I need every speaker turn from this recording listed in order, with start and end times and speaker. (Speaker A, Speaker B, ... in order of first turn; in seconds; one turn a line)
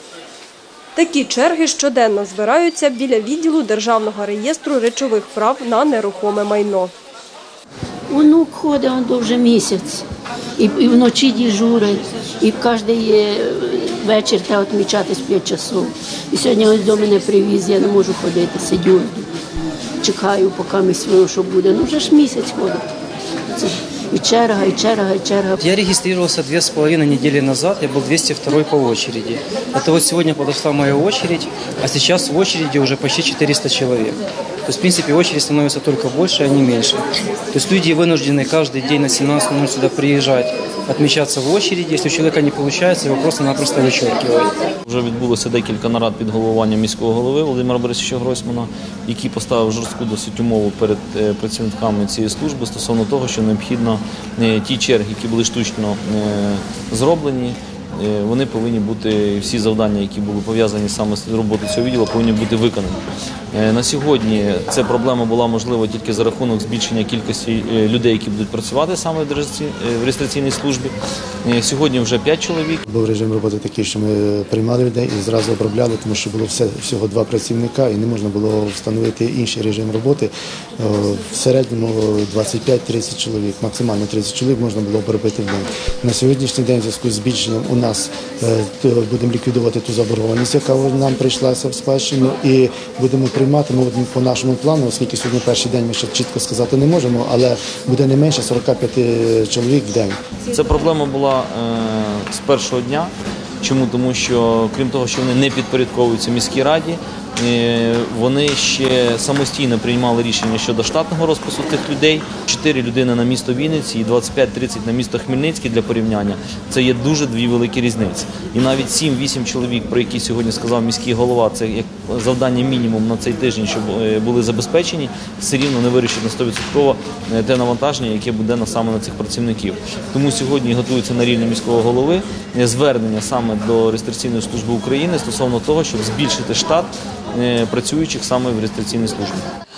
Speaker A: 1.0-6.9
Speaker B: 8.1-10.1
Speaker B: 10.6-19.3
Speaker B: 20.0-22.9
Speaker B: 23.5-25.6
Speaker C: 25.6-44.5
Speaker D: 44.9-72.8
Speaker E: 72.9-100.2
Speaker D: 100.5-139.5